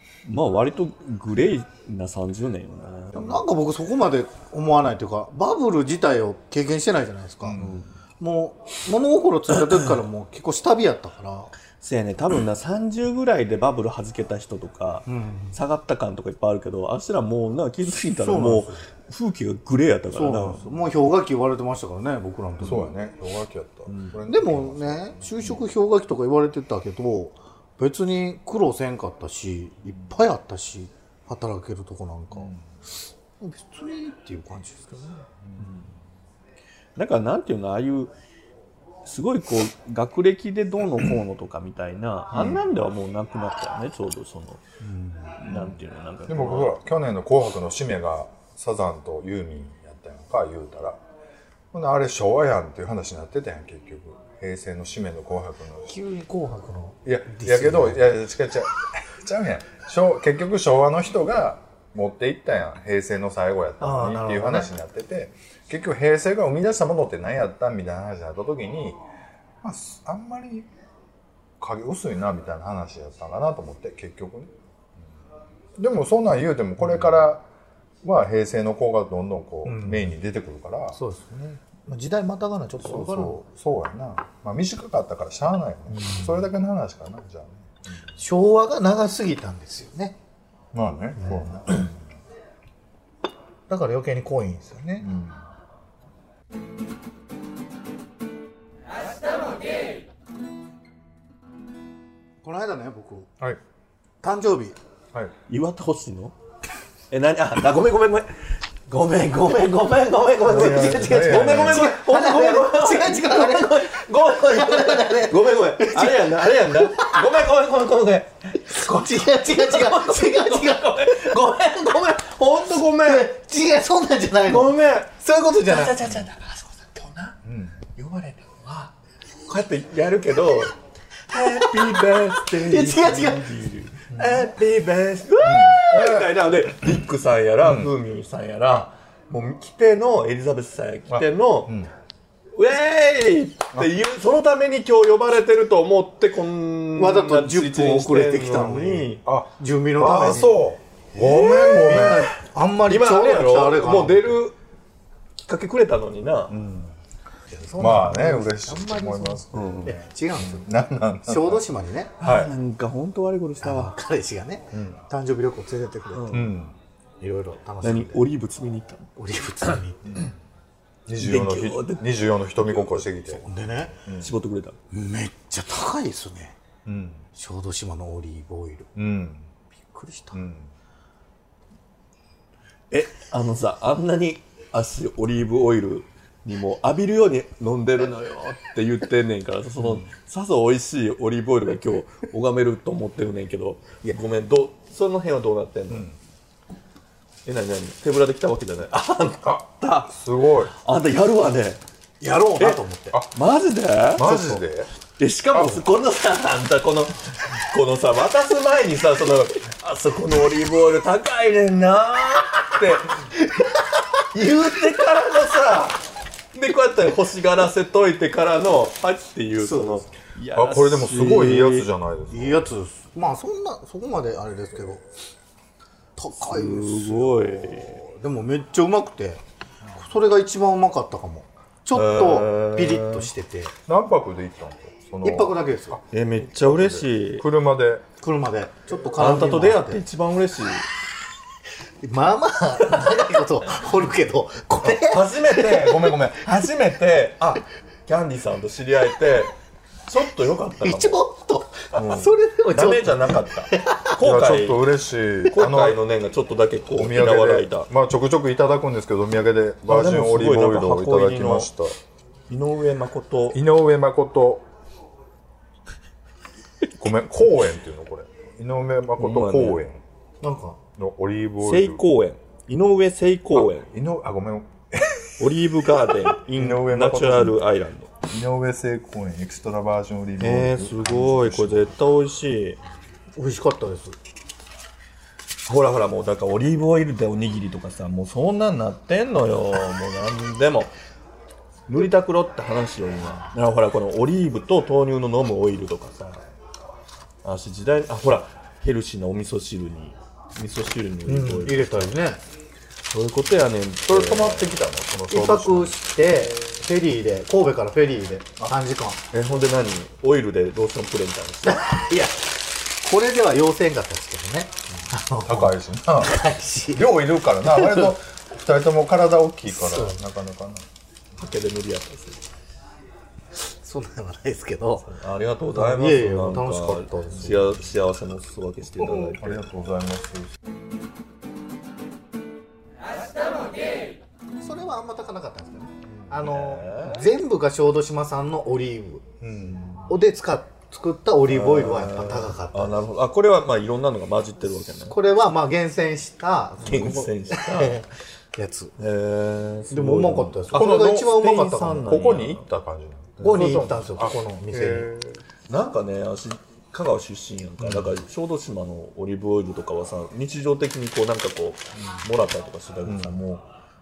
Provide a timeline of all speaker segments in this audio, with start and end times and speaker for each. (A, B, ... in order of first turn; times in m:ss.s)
0:00.2-0:03.4 A
0:03.1-0:07.6 B
0:07.4-0:07.8 C
0:07.6-0:07.9 A
0:08.2-0:11.5 B
0:11.8-0:20.7 A
0:15.1-0:15.6 B
0:18.2-0:18.8 B
0:20.1-0:22.9 B
0:22.6-0:25.6 C
0:24.3-0:32.5 B
0:32.3-0:32.6 C
0:33.4-0:35.2 B
0:35.6-0:35.9 A
0:37.0-0:38.1 A
0:39.0-0:44.6 A
0:42.3-0:42.6 C
0:44.8-0:51.0 C
0:45.4-0:46.7 A
0:51.7-0:55.9 C
0:55.9-0:58.2 B
0:57.0-1:09.0 C
1:03.8-1:04.7 B
1:09.6-1:10.7 C
1:11.6-1:14.5 C
1:15.8-1:17.4 C
1:18.0-1:21.0 C
1:19.6-1:20.1 B
1:20.9-1:23.4 B
1:22.8-1:28.0 C
1:25.9-1:26.5 B
1:28.2-1:30.2 B
1:30.7-1:32.0 C
1:31.2-1:31.9 B
1:33.7-1:35.1 B
1:35.0-1:35.4 C
1:42.4-1:43.3 B
1:44.2-1:44.8 B
1:45.5-1:46.3 A
1:47.1-1:48.3 A
1:48.9-2:03.3 A
1:50.5-1:51.9 C
1:50.5-1:57.3 B
1:58.6-2:01.3 B
2:03.0-2:05.9 B
2:04.4-2:07.4 A
2:07.4-2:07.8 C
2:08.0-2:08.9 A
2:09.5-2:10.8 A
2:11.3-2:21.8 A
2:12.5-2:13.4 B
2:14.1-2:14.4 C
2:15.4-2:16.3 C
2:17.6-2:17.9 C
2:21.1-2:21.9 C
2:22.5-2:29.2 A
2:27.0-2:30.6 B
2:29.2-2:32.3 C
2:31.2-2:32.3 A
2:31.8-2:34.4 B
2:32.8-2:34.5 A
2:35.5-2:36.6 A
2:36.5-2:36.9 C
2:37.5-2:40.7 B
2:37.8-2:41.6 C
2:39.5-2:39.9 A
2:41.2-2:42.1 B
2:42.2-2:42.5 C
2:42.2-2:43.9 A
2:43.6-2:46.4 B
2:44.7-2:45.0 C
2:46.1-2:46.5 A
2:46.3-2:46.7 C
2:47.2-2:48.2 B
2:47.8-2:49.8 A
2:49.2-2:50.3 B
2:50.1-2:50.3 C
2:51.1-2:53.4 C
2:51.2-2:52.0 A
2:53.3-2:54.0 B
2:54.0-2:54.3 C
2:54.2-2:54.8 A
2:54.9-2:56.6 B
2:56.8-2:57.2 C
2:57.3-2:58.9 B
2:59.0-2:59.5 C
2:59.8-3:00.4 B
3:00.3-3:00.7 C
3:02.9-3:16.1 A
3:09.8-3:10.0 C
3:15.9-3:16.1 C
3:17.4-3:20.1 A
3:19.4-3:20.7 C
3:20.7-3:21.8 A
3:22.2-3:23.2 B
3:23.3-3:24.4 A
3:24.2-3:24.9 C
3:24.2-3:24.6 B
3:25.2-3:33.2 A
3:25.5-3:25.8 C
3:34.3-3:41.9 A
3:34.4-3:34.8 B
3:39.6-3:40.1 B
3:40.5-3:42.7 C
3:42.3-3:45.0 B
3:46.2-3:49.4 B
3:46.4-3:48.0 A
3:50.0-3:53.7 B
3:51.9-3:53.3 A
3:53.8-3:58.0 C
3:55.2-3:56.0 B
3:56.1-3:57.4 A
3:58.2-4:00.0 B
3:59.1-4:00.9 A
4:02.0-4:05.4 B
4:04.8-4:09.6 A
4:10.1-4:11.2 A
4:10.8-4:14.2 B
4:11.9-4:14.8 A
4:14.2-4:16.0 C
4:15.5-4:17.9 A
4:16.9-4:21.9 C
4:19.9-4:21.7 A
4:22.5-4:23.6 A
4:23.5-4:24.6 C
4:27.0-4:30.0 C
4:29.2-4:29.8 A
4:30.4-4:30.8 B
4:31.0-4:32.0 C
4:31.6-4:33.9 A
4:33.5-4:37.6 C
4:35.4-4:38.1 A
4:38.3-4:42.0 C
4:40.4-4:42.8 A
4:43.3-4:44.2 B
4:45.6-4:50.9 A
4:51.9-4:56.4 A
4:57.4-5:02.1 A
5:01.3-5:02.4 B
5:03.1-5:04.8 A
5:04.0-5:05.9 C
5:05.3-5:09.2 B
5:09.3-5:11.9 A
5:11.6-5:17.1 B
5:15.4-5:20.8 C
5:17.6-5:18.1 B
5:19.7-5:20.2 B
5:21.4-5:22.4 A
5:23.5-5:25.1 B
5:25.0-5:29.6 A
5:25.7-5:27.7 B
5:29.4-5:30.5 C
5:34.6-5:39.2 B
5:36.4-5:37.2 A
5:39.4-5:40.1 C
5:40.1-5:43.0 B
5:41.5-5:45.2 A
5:45.0-5:48.9 B
5:46.8-5:48.0 A
5:49.0-5:52.7 A
5:49.9-5:52.3 B
5:50.7-5:51.4 C
5:52.0-5:55.4 C
5:53.4-5:53.8 A
5:53.4-5:55.1 B
5:55.7-6:03.7 A
5:57.8-5:58.2 C
6:03.0-6:03.3 C